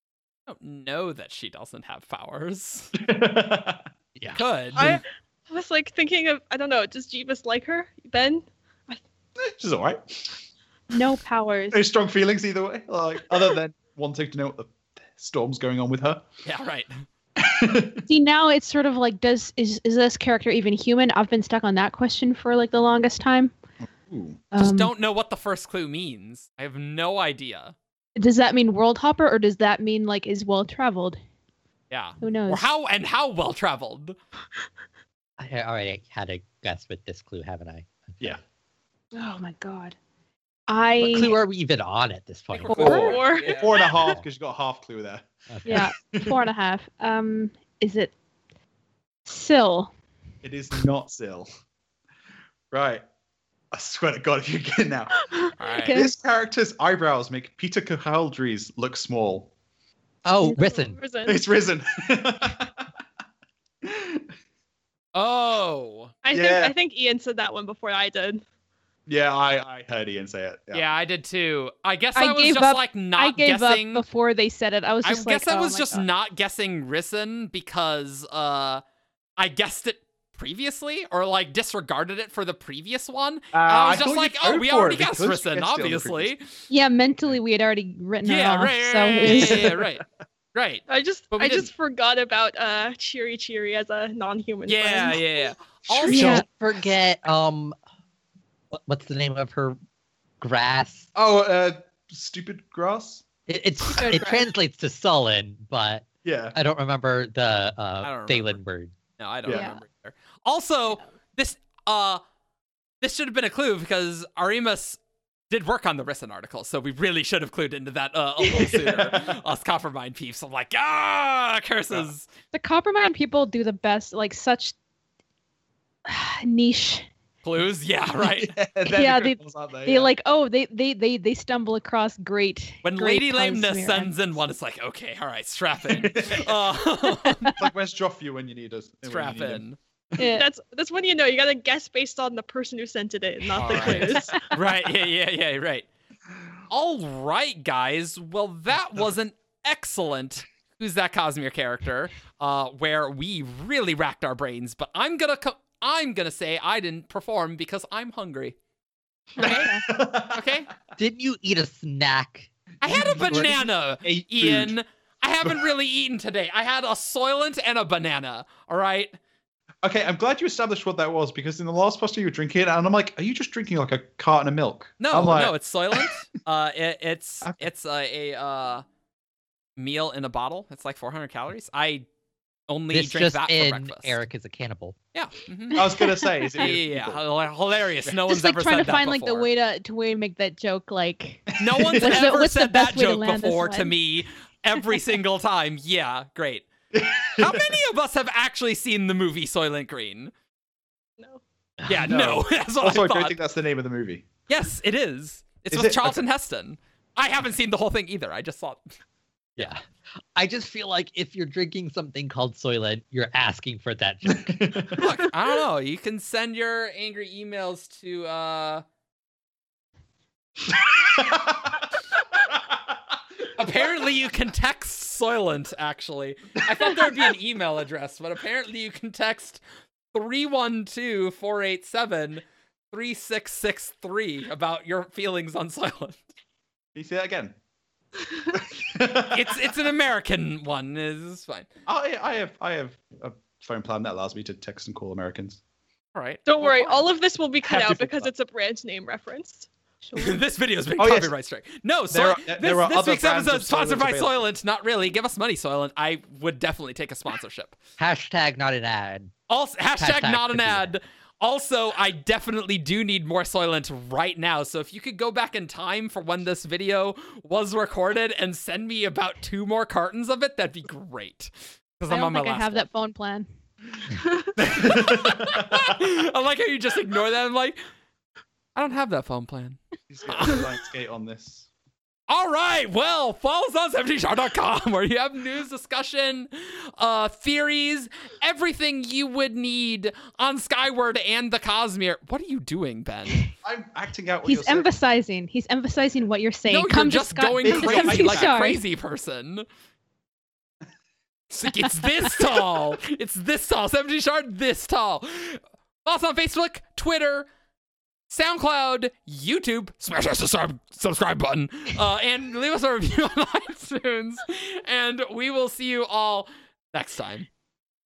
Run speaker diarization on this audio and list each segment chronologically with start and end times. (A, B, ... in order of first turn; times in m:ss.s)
0:00.5-0:02.9 A
0:02.9-0:03.8 B
0:04.3-0:05.0 A
0:04.8-0:05.0 B
0:04.8-0:09.0 C
0:09.4-0:10.4 B
0:10.9-0:11.8 D
0:11.7-0:16.2 B
0:16.4-0:17.0 A
0:17.4-0:18.1 B
0:18.1-0:23.6 D
0:23.8-0:24.4 B
0:24.5-0:24.9 D
0:24.6-0:27.7 A
0:28.2-0:31.2 D
0:31.9-0:34.2 A
0:32.2-0:32.6 D
0:35.4-0:38.4 E
0:39.1-0:40.0 D
0:40.7-0:41.3 D
0:41.0-0:43.0 E
0:42.5-0:44.2 C
0:42.7-0:43.0 D
0:42.7-0:46.4 B
0:42.8-0:43.9 A
0:45.5-0:45.8 E
0:45.6-0:48.1 D
0:49.2-0:49.9 D
0:50.4-0:51.5 B
0:52.7-0:53.0 B
0:53.7-0:55.3 B
0:55.6-0:56.0 A
0:55.6-0:56.1 D
0:55.9-0:59.5 B
1:00.2-1:01.0 E
1:00.4-1:01.4 C
1:01.3-1:02.9 B
1:03.8-1:04.3 B
1:05.1-1:06.1 A
1:06.2-1:08.4 C
1:06.3-1:06.7 B
1:09.1-1:10.8 B
1:10.7-1:14.0 A
1:12.1-1:16.0 D
1:15.0-1:18.8 A
1:19.4-1:26.5 A
1:23.5-1:26.3 B
1:26.7-1:29.6 D
1:28.2-1:31.7 A
1:29.2-1:29.8 B
1:30.9-1:35.2 C
1:34.7-1:36.4 A
1:35.9-1:36.4 B
1:36.1-1:36.4 D
1:36.1-1:37.8 E
1:38.7-1:39.8 E
1:40.4-1:41.1 E
1:41.1-1:43.2 B
1:43.5-1:48.9 E
1:43.9-1:44.2 B
1:44.0-1:44.4 D
1:46.2-1:46.6 B
1:48.0-1:48.6 A
1:49.2-1:52.2 A
1:49.5-1:49.8 D
1:53.0-1:55.0 A
1:55.5-2:02.3 A
1:58.4-1:59.4 B
2:02.5-2:04.7 D
2:06.0-2:07.1 D
2:07.4-2:08.6 A
2:08.3-2:10.1 B
2:08.9-2:14.4 D
2:12.8-2:17.6 A
2:15.9-2:16.5 B
2:17.1-2:17.6 D
2:17.6-2:20.3 B
2:19.0-2:19.8 A
2:20.2-2:20.5 D
2:20.3-2:24.4 C
2:23.6-2:25.9 A
2:23.6-2:24.4 B
2:26.7-2:38.6 A
2:39.4-2:39.7 A
2:39.4-2:39.8 D
2:39.4-2:40.6 B
2:40.3-2:40.7 A
2:41.0-2:42.5 E
2:42.8-2:49.2 A
2:42.8-2:44.7 B
2:49.8-2:56.2 B
2:55.0-2:58.8 A
2:59.8-3:02.1 A
3:02.7-3:04.2 A
3:02.9-3:05.0 E
3:05.1-3:05.8 A
3:05.7-3:07.2 B
3:05.8-3:06.7 D
3:06.6-3:09.5 A
3:08.3-3:11.5 D
3:11.5-3:12.3 B
3:11.6-3:16.7 A
3:12.0-3:14.0 D
3:16.9-3:17.8 B
3:17.4-3:20.3 A
3:21.8-3:22.1 E
3:21.9-3:23.4 A
3:22.0-3:24.3 B
3:24.5-3:28.9 A
3:25.7-3:26.2 B
3:29.6-3:29.8 E
3:30.4-3:34.9 E
3:34.2-3:35.1 B
3:35.0-3:38.8 A
3:40.8-3:41.9 B
3:42.5-3:42.8 B
3:43.5-3:49.6 A
3:50.1-3:56.2 A
3:56.9-3:57.6 B
3:58.5-3:59.6 B
3:59.3-4:01.7 A
4:01.8-4:05.6 B
4:06.1-4:06.4 A
4:06.4-4:09.7 C
4:06.6-4:07.0 D
4:07.6-4:08.3 B
4:10.0-4:10.4 D
4:10.2-4:17.8 A
4:11.0-4:11.3 B
4:12.1-4:14.4 B
4:18.0-4:19.3 E
4:19.5-4:32.8 A
4:20.0-4:20.9 E
4:32.1-4:33.4 D
4:34.6-4:37.8 A
4:34.6-4:36.0 B
4:38.7-4:40.6 A
4:40.1-4:41.7 B
4:42.3-4:53.4 A
4:53.6-4:54.9 B
4:54.4-4:58.8 D
4:56.6-4:59.6 A
4:57.6-4:58.6 B
5:01.5-5:07.5 A
5:08.3-5:17.5 A